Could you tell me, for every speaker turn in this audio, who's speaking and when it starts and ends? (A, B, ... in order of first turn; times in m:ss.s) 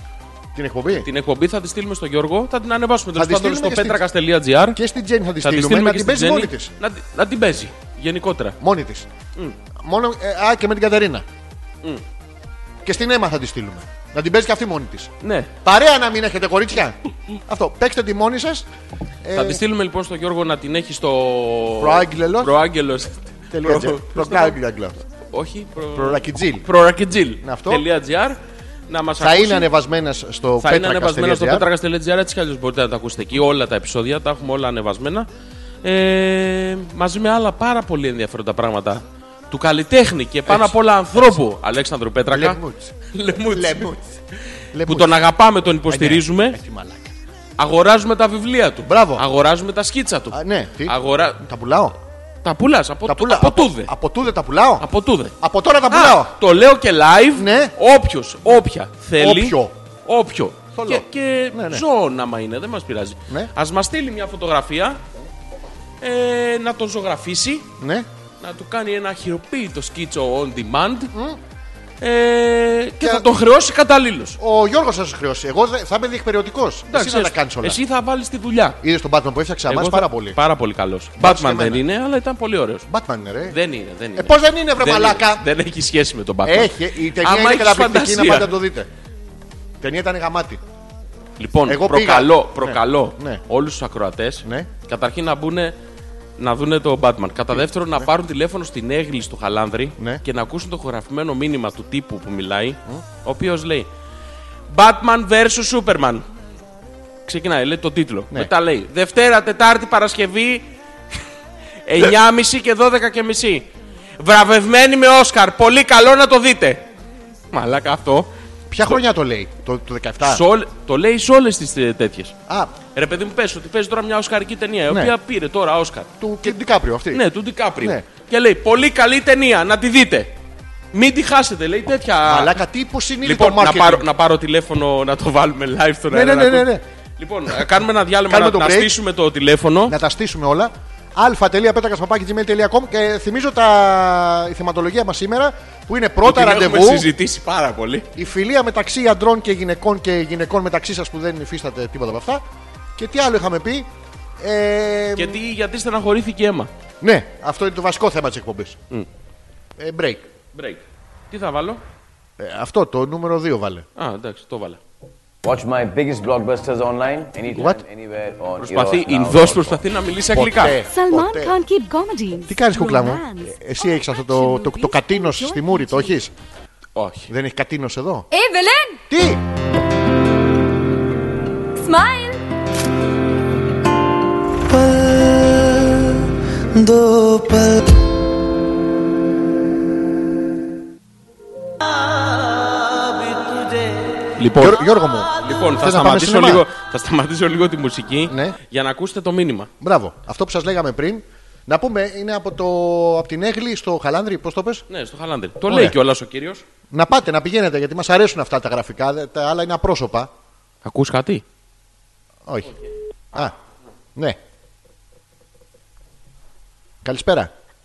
0:00.6-0:01.1 A
0:00.9-0:04.8 B
0:03.2-0:04.0 A
0:04.7-0:06.7 A
0:05.4-0:08.6 B
0:08.6-0:09.1 A
0:09.8-0:11.2 A
0:12.8-0:15.1 A
0:15.2-0:15.5 B
0:15.6-0:18.7 A
0:19.2-0:19.6 A
0:19.3-0:24.6 B
0:21.8-0:22.6 A
0:23.5-0:25.0 A
0:25.3-0:28.4 B
0:25.9-0:26.7 A
0:27.4-0:27.9 A
0:28.9-0:29.7 B
0:29.2-0:31.7 A
0:30.6-0:35.3 B
0:35.8-0:42.6 B
0:40.5-0:41.3 A
0:42.3-0:42.9 A
0:43.1-0:43.9 B
0:43.5-0:44.2 A
0:44.7-0:45.2 A
0:44.9-0:46.6 B
0:45.9-0:47.1 A
0:47.6-0:51.4 B
0:48.8-0:49.2 A
0:50.3-0:51.9 A
0:52.4-0:53.9 B
0:53.0-0:54.9 A
0:54.8-0:55.4 B
0:55.4-0:56.3 A
0:55.9-1:05.0 B
0:57.4-0:57.7 A
0:59.2-0:59.7 A
1:00.7-1:01.8 A
1:06.0-1:07.7 B
1:07.8-1:08.1 A
1:08.4-1:11.1 B
1:11.1-1:11.4 A
1:12.0-1:14.4 B
1:13.0-1:13.3 A
1:14.4-1:17.8 A
1:16.9-1:18.8 B
1:18.8-1:20.4 A
1:19.7-1:22.9 B
1:21.2-1:21.8 A
1:22.9-1:23.6 A
1:23.5-1:28.5 B
1:24.2-1:25.4 A
1:26.4-1:28.9 A
1:29.8-1:30.6 A
1:31.4-1:35.7 B
1:31.6-1:33.4 A
1:34.4-1:34.7 A
1:36.4-1:43.9 B
1:37.6-1:38.1 A
1:44.7-1:46.2 B
1:47.3-1:50.6 B
1:51.9-1:53.7 B
1:54.2-1:56.9 B
1:57.5-1:58.3 B
1:58.7-2:00.4 A
2:00.2-2:02.4 B
2:02.5-2:02.7 A
2:02.9-2:06.6 B
2:06.2-2:07.2 A
2:07.1-2:10.3 B
2:10.9-2:12.5 B
2:12.3-2:14.1 A
2:13.2-2:20.0 B
2:16.1-2:16.8 A
2:18.3-2:19.0 A
2:19.9-2:27.1 A
2:26.2-2:28.1 B
2:28.2-2:32.4 A
2:33.0-2:33.9 A
2:34.4-2:35.4 A
2:35.2-2:36.7 B
2:37.0-2:38.8 A
2:39.8-2:40.3 A
2:40.6-2:41.8 B
2:42.4-2:43.9 A
2:44.0-2:44.8 B
2:45.4-2:49.8 C
2:47.5-2:47.8 A
2:48.6-2:50.8 B
2:50.3-2:51.6 A
2:50.8-2:56.2 D
2:52.4-2:56.3 A
2:57.0-2:57.3 B
2:57.3-2:58.3 A
2:58.3-2:59.0 D
2:59.1-2:59.4 A
3:01.8-3:02.4 D
3:14.4-3:14.8 B
3:14.6-3:16.6 A
3:15.4-3:19.7 B
3:18.3-3:18.6 A
3:19.8-3:24.8 A
3:24.9-3:26.6 B
3:25.7-3:26.0 A
3:26.9-3:30.3 A
3:30.8-3:31.4 B
3:32.4-3:32.7 A
3:37.0-3:37.5 A